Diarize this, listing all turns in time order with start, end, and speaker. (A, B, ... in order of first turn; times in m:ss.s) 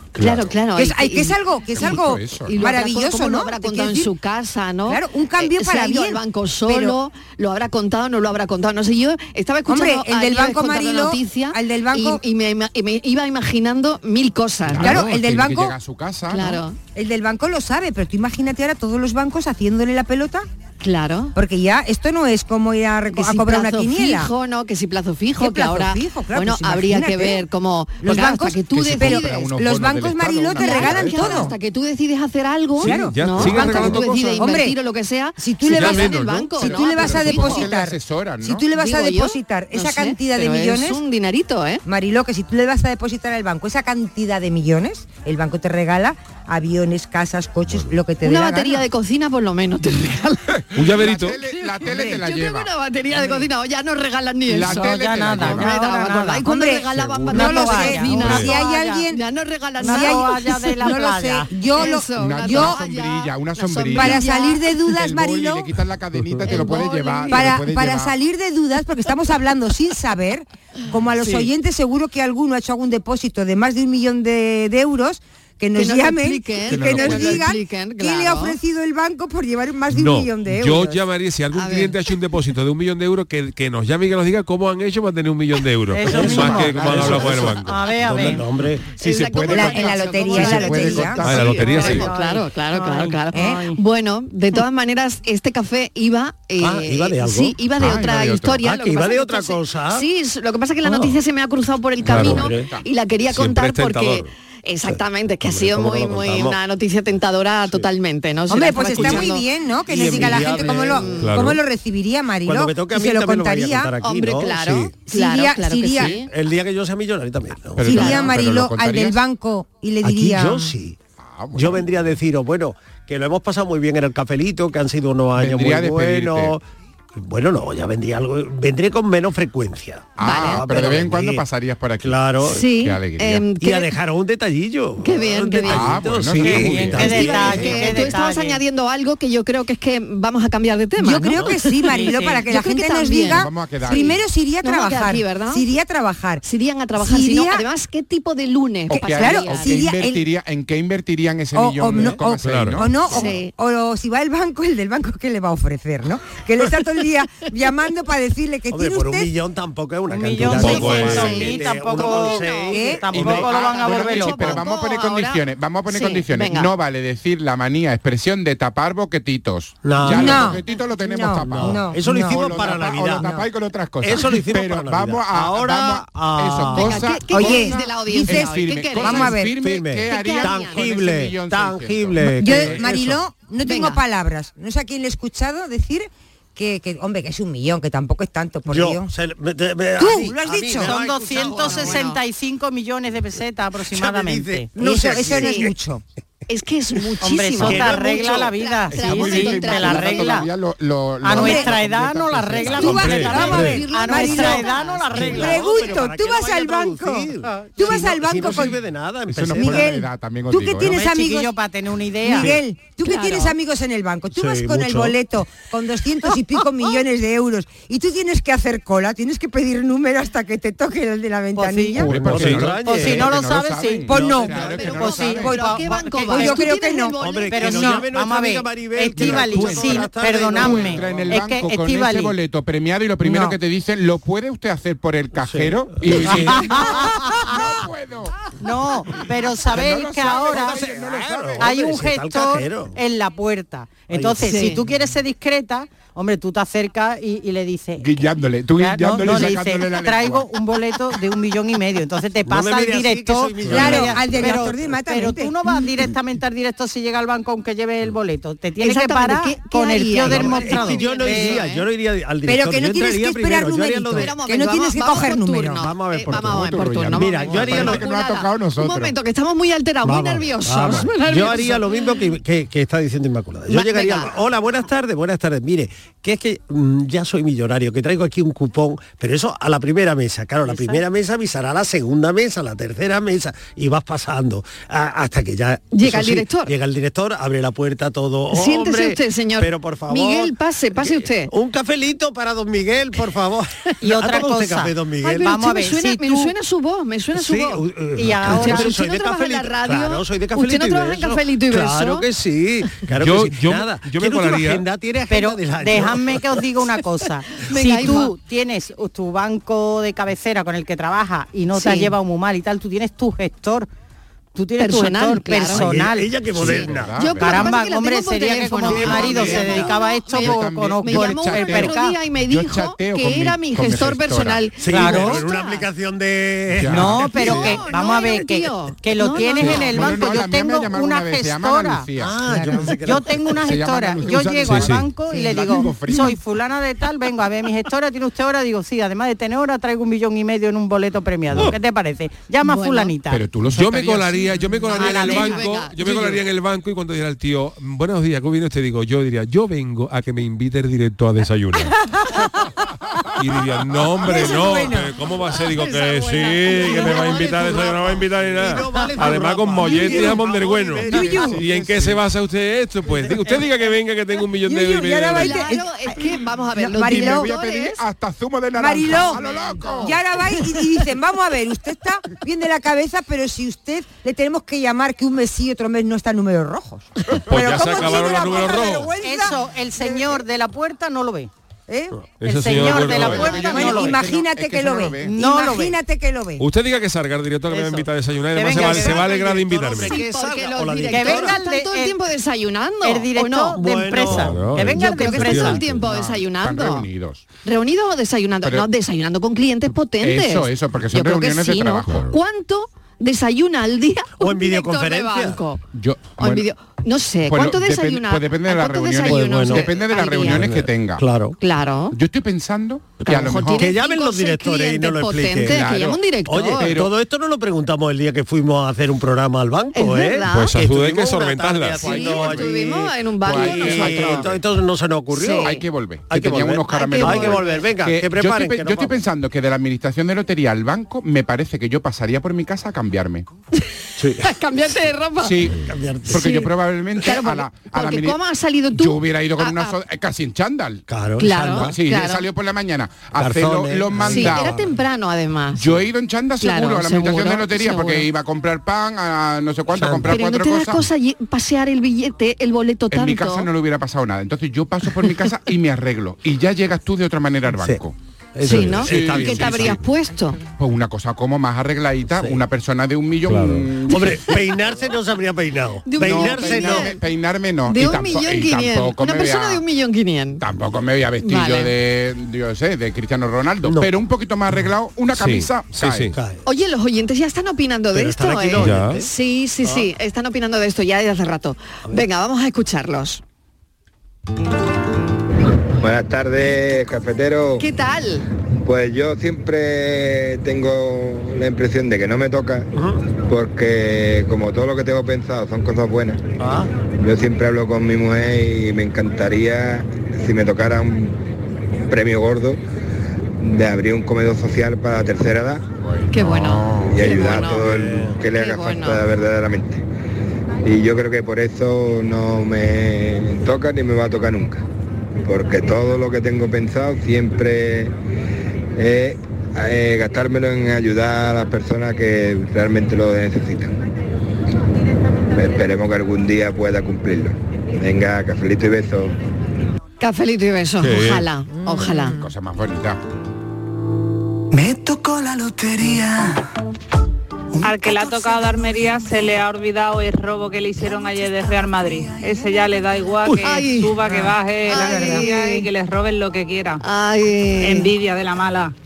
0:00.2-0:15.1 A
0:00.7-0:04.1 B
0:01.7-0:02.6 C
0:04.8-0:07.0 B
0:09.7-0:12.2 B
0:14.7-0:16.6 C
0:14.8-0:15.7 B
0:16.3-0:16.8 A
0:16.9-0:20.5 B
0:20.8-0:21.3 A
0:21.3-0:24.3 B
0:23.1-0:29.5 A
0:25.4-0:27.4 B
0:28.0-0:31.5 B
0:28.2-0:31.5 C
0:30.6-0:37.7 A
0:32.8-0:34.4 D
0:32.8-0:34.8 B
0:35.4-0:41.0 B
0:35.7-0:36.5 D
0:36.6-0:38.6 C
0:38.7-0:41.8 A
0:41.8-0:48.9 B
0:48.2-0:50.6 A
0:50.7-0:52.7 C
0:50.8-0:51.4 D
0:51.4-1:00.9 A
0:51.9-0:52.2 B
0:53.1-0:53.5 E
0:54.5-0:55.7 C
0:54.7-0:56.4 E
0:56.4-0:59.2 B
0:57.3-0:59.0 E
0:58.2-0:58.5 D
0:59.8-1:01.6 E
0:59.8-1:02.8 B
1:01.7-1:04.7 A
1:02.1-1:04.3 C
1:03.9-1:05.7 B
1:04.9-1:08.1 C
1:06.5-1:07.5 A
1:07.3-1:21.0 B
1:11.2-1:11.5 A
1:15.8-1:18.6 A
1:19.9-1:28.4 D
1:21.5-1:22.0 A
1:25.9-1:28.4 E
1:26.0-1:29.0 F
1:29.0-1:49.4 A
1:29.0-1:29.4 D
1:29.2-1:32.0 C
1:29.4-1:31.2 B
1:31.2-1:32.1 D
1:31.4-1:33.8 E
1:33.3-1:33.7 B
1:36.6-1:37.8 F
1:37.7-1:38.6 C
1:38.6-1:40.0 F
1:40.8-1:41.2 F
1:42.0-1:42.5 D
1:42.1-1:42.9 C
1:42.1-1:42.5 F
1:43.2-1:44.3 D
1:44.8-1:46.6 F
1:48.5-1:53.9 B
1:48.9-1:49.2 F
1:49.9-1:51.2 F
1:50.0-1:51.4 A
1:51.2-1:51.6 D
1:52.4-1:55.0 F
1:54.0-1:56.3 A
1:55.0-1:56.2 B
1:56.2-1:58.2 F
1:57.8-1:59.2 C
1:57.8-2:00.7 B
1:57.9-1:58.3 A
2:00.0-2:01.0 F
2:01.1-2:02.1 C
2:01.5-2:06.6 F
2:05.4-2:06.5 C
2:07.1-2:11.4 F
2:10.2-2:13.4 C
2:10.2-2:10.7 A
2:12.0-2:12.6 F
2:12.4-2:13.9 A
2:13.6-2:18.1 F
2:15.0-2:16.0 A
2:15.7-2:17.5 C
2:16.3-2:18.6 E
2:17.0-2:24.1 A
2:21.0-2:26.4 B
2:21.8-2:22.5 E
2:23.2-2:24.2 C
2:24.6-2:25.6 A
2:26.4-2:29.9 A
2:27.0-2:27.6 B
2:28.9-2:33.3 C
2:28.9-2:30.2 B
2:31.5-2:39.3 B
2:32.4-2:32.8 D
2:33.1-2:33.5 A
2:38.7-2:43.7 F
2:40.1-2:44.6 E
2:40.4-2:41.4 D
2:40.7-2:42.5 A
2:42.7-2:43.1 B
2:43.2-3:03.2 C
2:43.7-2:46.7 A
2:49.8-2:50.6 F
2:50.0-2:53.4 B
2:51.4-2:53.4 F
2:54.0-2:57.0 F
2:56.7-2:59.4 A
2:57.3-2:59.5 B
2:59.5-3:03.0 F
3:00.1-3:00.9 A
3:02.2-3:09.1 B
3:03.6-3:04.0 A
3:08.7-3:12.0 F
3:10.0-3:10.9 B
3:10.7-3:14.7 E
3:11.3-3:12.2 A
3:13.9-3:15.7 F
3:14.7-3:16.0 B
3:15.3-3:15.7 A
3:16.5-3:20.5 A
3:17.2-3:20.5 E
3:17.6-3:18.5 F
3:18.9-3:23.2 C
3:21.2-3:26.1 E
3:21.3-3:21.8 B
3:22.6-3:28.8 B
3:22.8-3:23.8 D
3:23.1-3:23.8 F
3:23.6-3:25.2 A
3:25.1-3:30.0 F
3:27.4-3:28.2 E
3:29.3-3:31.0 C
3:29.6-3:31.5 B
3:30.7-3:32.6 E
3:32.2-3:42.3 B
3:32.3-3:32.6 F
3:33.0-3:33.5 A
3:34.3-3:35.2 F
3:41.6-3:42.1 E
3:42.0-3:45.7 C
3:42.0-3:43.5 F
3:42.3-3:42.6 D
3:42.6-3:46.7 E
3:44.0-3:44.7 B
3:44.5-3:48.0 A
3:45.3-3:47.2 B
3:47.2-3:51.3 F
3:47.5-3:52.3 E
3:49.2-3:50.0 C
3:50.5-3:58.3 C
3:53.2-3:53.5 E
3:55.4-3:56.6 F
3:56.1-3:57.7 E
3:58.6-4:00.8 E
3:59.6-4:01.8 C
4:00.2-4:03.0 F
4:01.6-4:08.2 E
4:04.1-4:04.6 F
4:04.4-4:04.8 A
4:08.0-4:10.5 C
4:08.8-4:21.6 E
4:12.4-4:14.7 F
4:13.7-4:15.8 B
4:18.8-4:21.8 A
4:20.2-4:24.3 F
4:22.4-4:25.8 B
4:24.2-4:32.2 A
4:25.8-4:28.0 F
4:26.3-4:29.2 C
4:27.5-4:27.9 E
4:30.0-4:55.4 F
4:33.7-4:34.4 A
4:40.6-4:41.0 E
4:45.9-4:46.7 A
4:48.5-4:51.5 A
4:54.0-4:56.5 E
4:55.2-4:57.8 A
4:57.3-5:06.4 F
4:58.2-4:59.0 E
4:58.4-5:02.2 A
5:03.2-5:04.8 D
5:05.3-5:13.9 E
5:07.7-5:08.3 A
5:11.7-5:12.1 A
5:14.5-5:16.4 E
5:14.8-5:16.0 A
5:15.6-5:17.3 F
5:16.5-5:17.8 C
5:16.7-5:25.8 A
5:17.3-5:22.2 E
5:18.8-5:19.9 F
5:19.0-5:25.4 C
5:24.8-5:27.7 F
5:24.8-5:25.5 E
5:26.7-5:27.7 C
5:26.9-5:32.1 E
5:27.2-5:30.2 A
5:29.6-5:32.4 C
5:32.2-5:33.7 F
5:32.5-5:33.0 B
5:33.0-5:45.7 E
5:33.6-5:36.4 C
5:34.6-5:35.1 D
5:42.6-5:43.1 A
5:43.3-5:44.4 C
5:43.7-5:52.0 D
5:44.9-5:46.2 A
5:46.0-5:46.4 C
5:53.4-6:05.7 D
5:54.2-5:55.1 B
5:55.5-5:57.4 A
5:56.7-6:01.8 F
5:59.9-6:00.4 B
6:01.1-6:01.6 B
6:01.2-6:02.2 C
6:03.3-6:03.9 E
6:04.6-6:07.5 B
6:05.4-6:08.0 A
6:06.9-6:10.2 C
6:08.8-6:09.4 B
6:10.0-6:20.3 B
6:17.5-6:19.1 D
6:19.2-6:21.5 E
6:21.9-6:22.1 B
6:22.4-6:23.6 D
6:22.4-6:24.4 E
6:22.9-6:26.7 B
6:23.5-6:23.8 A
6:23.7-6:25.3 C
6:25.2-6:26.0 E
6:26.6-6:30.2 D
6:27.7-6:29.5 E
6:28.6-6:31.6 F
6:30.0-6:33.8 A
6:31.0-6:32.2 E
6:33.0-6:35.8 E
6:33.7-6:35.2 F
6:34.2-6:36.0 D
6:34.9-6:37.1 A
6:36.5-6:37.4 C
6:37.6-6:45.8 A
6:38.6-6:38.9 C
6:40.2-6:42.3 C
6:44.4-6:45.6 F
6:45.9-6:46.7 C
6:46.4-6:50.7 A
6:47.4-6:51.2 C
6:49.2-6:49.9 F
6:50.4-6:51.6 F
6:51.6-6:52.2 A
6:52.1-6:53.9 C
6:53.2-6:57.0 A
6:53.7-6:55.9 F
6:55.6-6:57.1 C
6:56.4-7:05.7 F
6:59.9-7:00.8 A
7:00.5-7:02.2 D
7:02.0-7:04.5 A
7:02.1-7:02.7 C
7:03.4-7:04.5 C
7:05.3-7:05.8 A
7:05.6-7:13.4 C
7:06.3-7:09.2 F
7:06.9-7:07.8 A
7:14.2-7:14.5 F
7:14.4-7:15.7 A
7:15.4-7:18.4 C
7:15.8-7:16.5 F
7:16.3-7:20.0 A
7:18.9-7:21.0 C
7:21.1-7:22.0 F
7:21.4-7:22.4 A
7:21.7-7:24.8 C
7:23.3-7:24.9 F
7:24.2-7:28.3 A
7:25.7-7:31.1 C
7:29.9-7:30.4 F
7:30.3-7:33.7 A
7:33.1-7:38.1 C
7:37.7-7:38.0 F
7:38.6-7:40.0 F
7:38.6-7:39.0 D
7:38.6-7:40.6 A
7:38.7-7:40.0 C
7:40.8-7:44.3 C
7:42.3-7:42.6 F
7:43.5-7:43.9 D
7:44.1-7:47.1 F
7:46.0-7:47.2 A
7:46.2-7:49.8 C
7:47.9-7:50.6 A
7:50.6-7:56.3 C
7:51.4-7:51.9 A
7:53.8-7:54.1 F
7:55.3-7:56.3 D
7:56.3-7:56.6 F
7:56.6-8:03.4 A
7:58.1-7:59.3 F
7:58.8-7:59.2 D
7:59.8-8:00.1 F
8:06.0-8:07.8 G
8:07.8-8:08.4 A
8:08.8-8:12.9 G
8:12.9-8:13.2 F
8:13.4-8:16.4 G
8:16.6-8:16.9 F
8:17.2-8:21.4 G
8:22.1-8:22.8 G
8:23.6-8:25.8 G
8:26.3-8:27.9 A
8:26.4-8:27.2 C
8:27.0-8:30.0 G
8:27.4-8:28.4 F
8:28.5-8:29.2 A
8:30.8-8:34.8 G
8:35.4-8:38.2 G
8:39.0-8:43.9 G
8:45.5-8:49.3 G
8:50.2-8:52.4 A
8:51.0-8:51.5 D
8:52.2-8:53.2 C
8:57.8-9:07.0 H
9:03.5-9:05.9 A
9:07.0-9:08.1 A
9:07.8-9:08.9 H